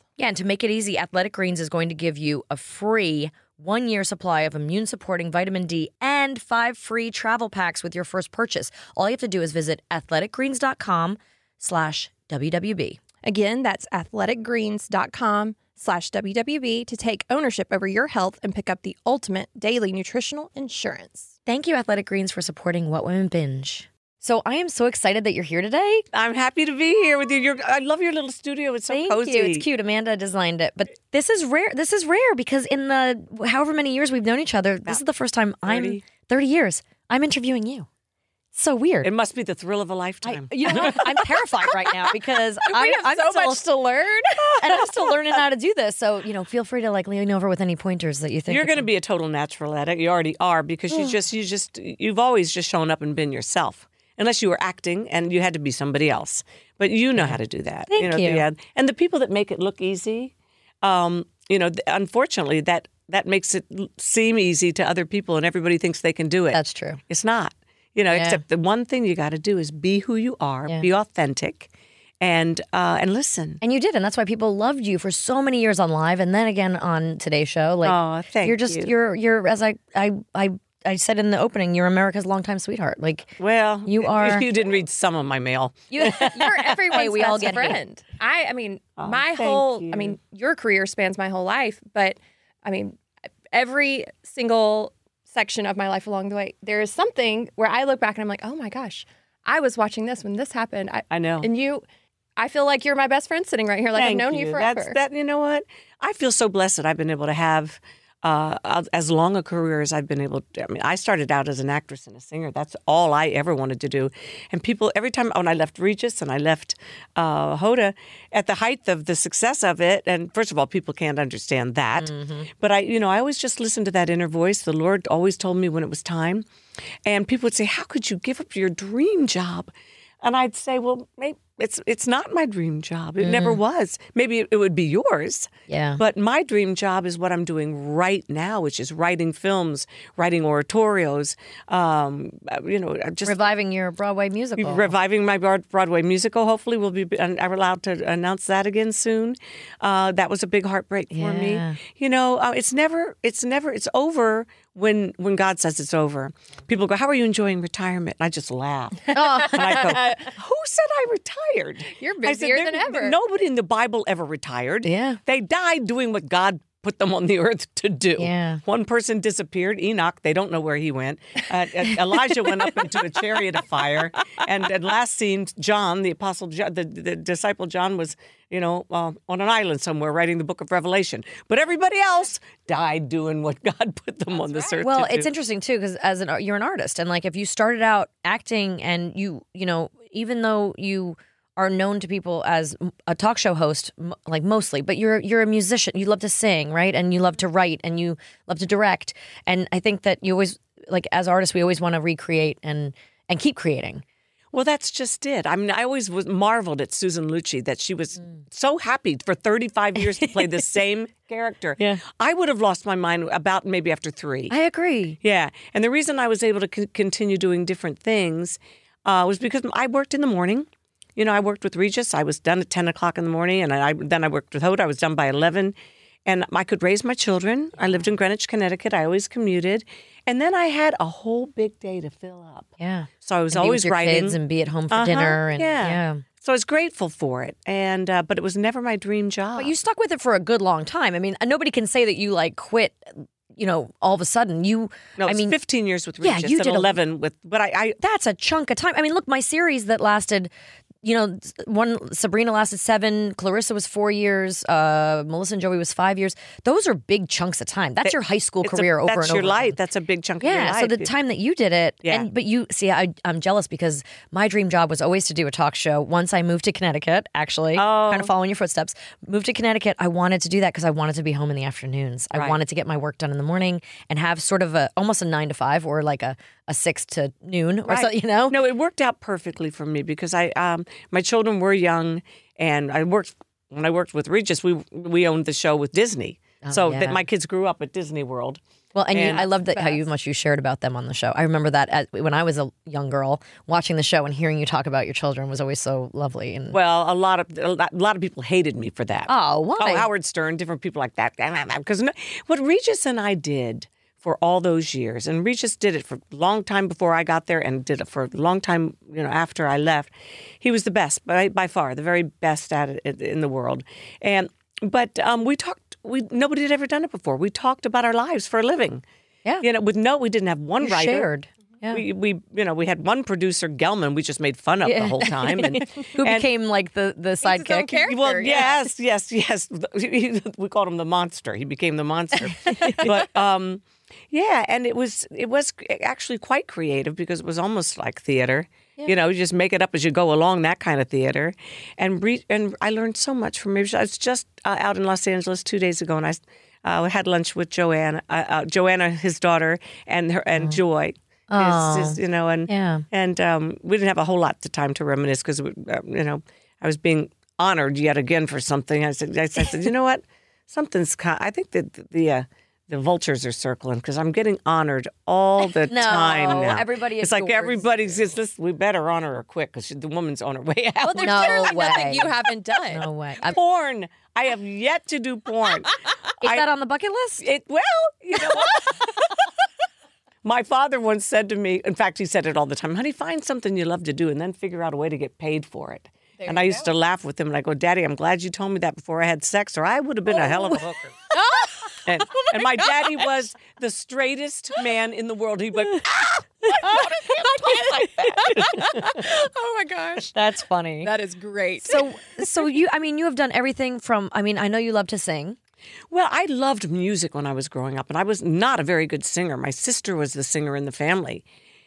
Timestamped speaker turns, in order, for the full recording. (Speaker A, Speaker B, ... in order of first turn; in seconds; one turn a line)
Speaker A: 0.2-13.0
Speaker B: 13.2-21.4
Speaker A: 21.5-26.1
Speaker C: 26.1-29.7
Speaker A: 28.9-37.9
Speaker C: 35.7-36.0
Speaker A: 38.5-39.1
Speaker C: 39.0-41.1
Speaker A: 40.2-43.6
Speaker B: 40.7-45.1
Speaker A: 44.6-48.9
Speaker C: 48.5-71.7
Speaker A: 57.9-58.5
Speaker A: 66.5-67.0
Speaker A: 68.1-68.4
Speaker C: 72.2-73.6
Speaker A: 73.6-84.5
Speaker C: 77.8-78.9
Speaker C: 83.4-86.3
Speaker A: 85.9-87.8
Speaker B: 86.1-93.0
Speaker C: 89.0-90.2
Speaker B: 93.5-101.8
Speaker C: 101.1-101.5
Speaker B: 102.4-105.0
Speaker C: 103.9-126.5
Speaker A: 122.0-122.5
Speaker C: 127.0-129.7
Speaker C: 130.2-143.4
Speaker A: 133.2-133.6
Speaker A: 135.7-136.0
Speaker A: 143.2-144.9
Speaker C: 144.6-185.3
Speaker A: 151.1-151.8
Speaker A: 159.1-160.0
Speaker B: 159.2-160.3
Speaker B: 161.9-163.2
Speaker A: 164.8-165.2
Speaker A: 168.2-168.6
Speaker A: 184.8-204.0
Speaker C: 204.5-214.5
Speaker A: 214.5-215.2
Speaker C: 215.2-225.7
Speaker C: 226.3-234.4
Speaker A: 232.8-236.2
Speaker C: 234.9-239.7
Speaker A: 239.6-245.6
Speaker C: 245.2-248.0
Speaker A: 246.2-246.9
Speaker A: 248.0-250.5
Speaker A: 251.0-259.8
Speaker C: 258.1-261.1
Speaker A: 260.4-278.6
Speaker C: 267.8-268.3
Speaker C: 277.9-288.6
Speaker A: 286.6-287.2
Speaker A: 288.9-296.8
Speaker C: 289.1-289.5
Speaker B: 289.6-290.0
Speaker C: 296.7-319.0
Speaker A: 299.3-300.1
Speaker C: 319.6-321.3
Speaker A: 320.8-322.0
Speaker C: 321.9-326.5
Speaker A: 324.8-328.1
Speaker B: 327.4-328.9
Speaker C: 328.1-372.0
Speaker A: 332.5-333.1
Speaker A: 351.5-353.1
Speaker A: 365.8-367.9
Speaker B: 371.0-373.1
Speaker A: 371.2-372.3
Speaker A: 372.9-373.6
Speaker C: 373.4-376.7
Speaker A: 376.4-377.5
Speaker C: 377.4-379.2
Speaker B: 378.6-379.0
Speaker C: 380.4-391.2
Speaker B: 386.4-386.9
Speaker B: 391.3-393.1
Speaker C: 392.1-399.2
Speaker B: 396.8-400.3
Speaker A: 400.3-401.1
Speaker B: 401.0-402.1
Speaker A: 401.8-405.6
Speaker C: 406.1-411.4